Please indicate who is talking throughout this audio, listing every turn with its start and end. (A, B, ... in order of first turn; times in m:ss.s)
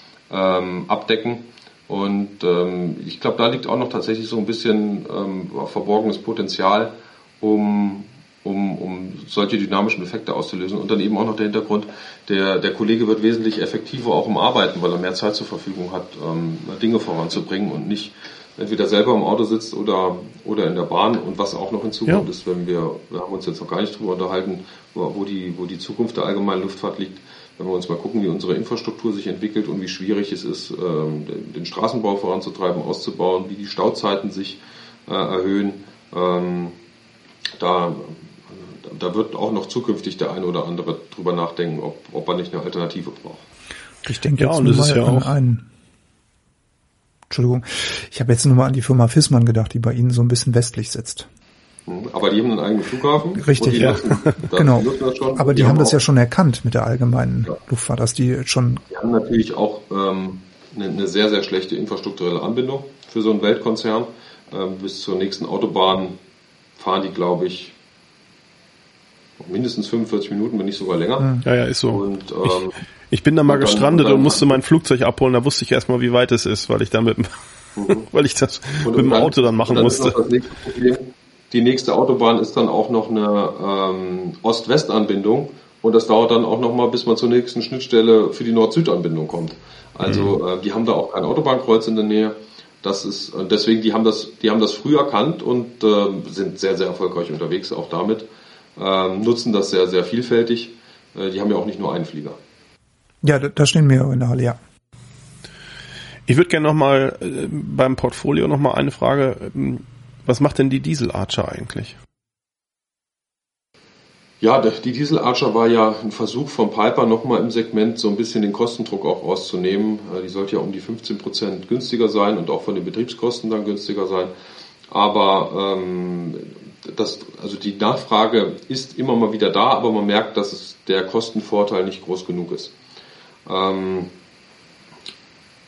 0:00.3-0:36.7 A
0:37.6-0:43.5 A
0:44.0-0:45.7 B
0:44.4-0:45.3 C
0:47.3-0:51.3 B
0:51.9-0:56.0 A
0:53.4-0:58.8 B
0:53.8-0:54.4 C
0:58.9-1:06.2 A
1:06.8-1:07.7 A
1:09.4-1:11.4 A
1:11.4-1:12.5 C
1:11.9-1:12.8 A
1:13.1-1:17.4 C
1:13.5-1:14.6 A
1:17.8-1:18.0 A
1:17.9-1:20.1 C
1:18.8-1:38.2 A
1:30.0-1:30.3 C
1:38.8-1:42.4 A
1:43.2-1:44.6 B
1:46.3-1:52.0 C
1:54.4-2:04.3 A
2:04.9-2:12.7 A
2:13.4-2:14.1 A